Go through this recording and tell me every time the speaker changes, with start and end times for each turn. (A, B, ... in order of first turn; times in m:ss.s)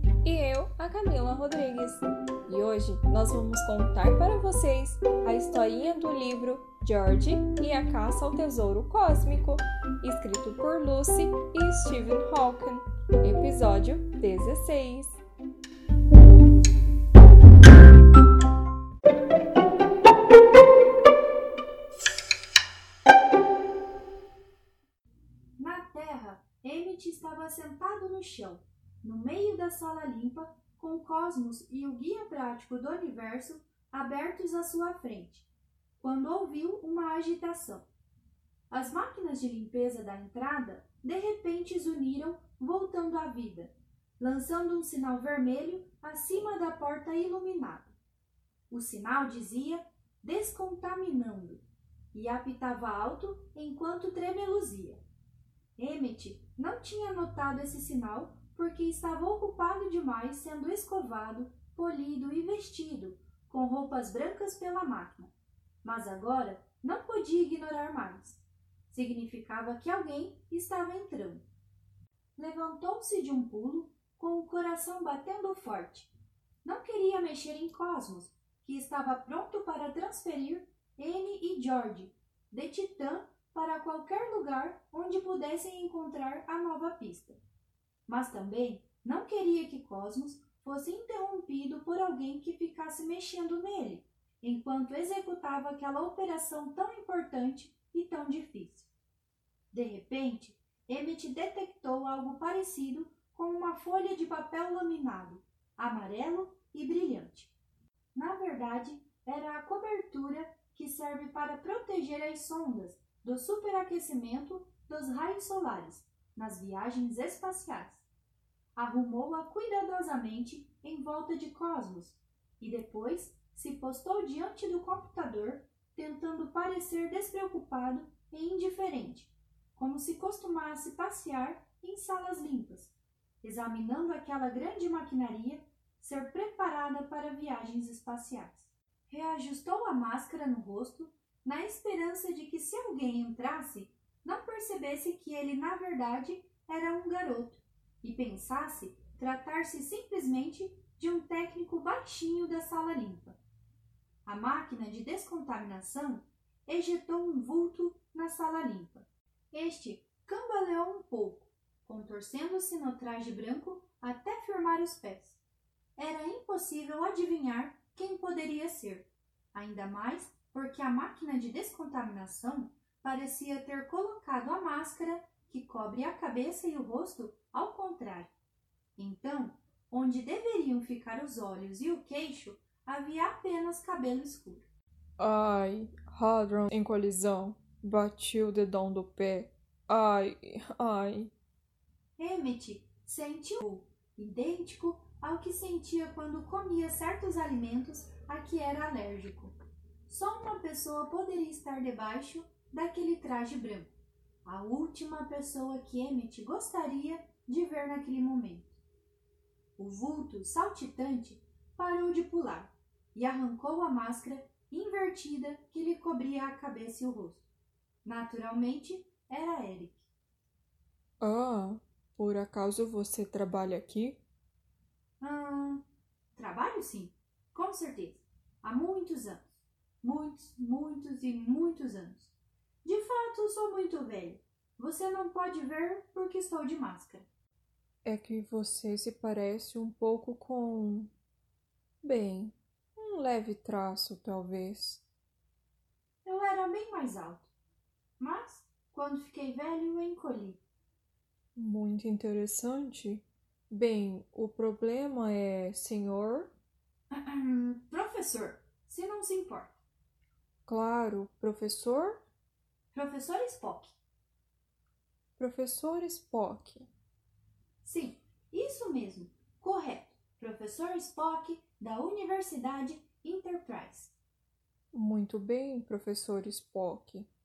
0:00.2-0:15.2 A
0:25.6-0:35.4 B
0:36.0-0:37.9 B
0:38.7-0:48.0 B
0:48.7-0:55.0 B
0:55.8-1:11.4 B
1:12.4-1:16.1 B
1:16.6-1:27.4 B
1:28.1-1:38.9 B
1:39.7-1:47.5 B
1:48.1-1:58.0 B
1:58.8-2:33.4 B
2:34.2-2:45.4 B
2:46.0-2:58.4 B
2:59.0-3:04.7 B
3:05.2-3:11.3 A
3:12.2-3:19.5 B
3:20.0-3:23.9 B
3:24.4-3:28.8 B
3:29.8-3:37.4 B
3:38.0-3:40.1 B
3:41.2-3:44.2 A
3:45.2-3:45.8 B
3:46.3-3:57.3 B
3:58.0-4:01.1 A
4:02.0-4:05.0 A
4:06.2-4:07.5 B
4:08.2-4:10.6 B
4:11.6-4:16.5 A
4:17.1-4:19.8 B
4:20.7-4:22.2 A
4:22.9-4:24.0 B
4:25.4-4:26.9 A
4:27.8-4:34.2 B
4:34.9-4:37.3 A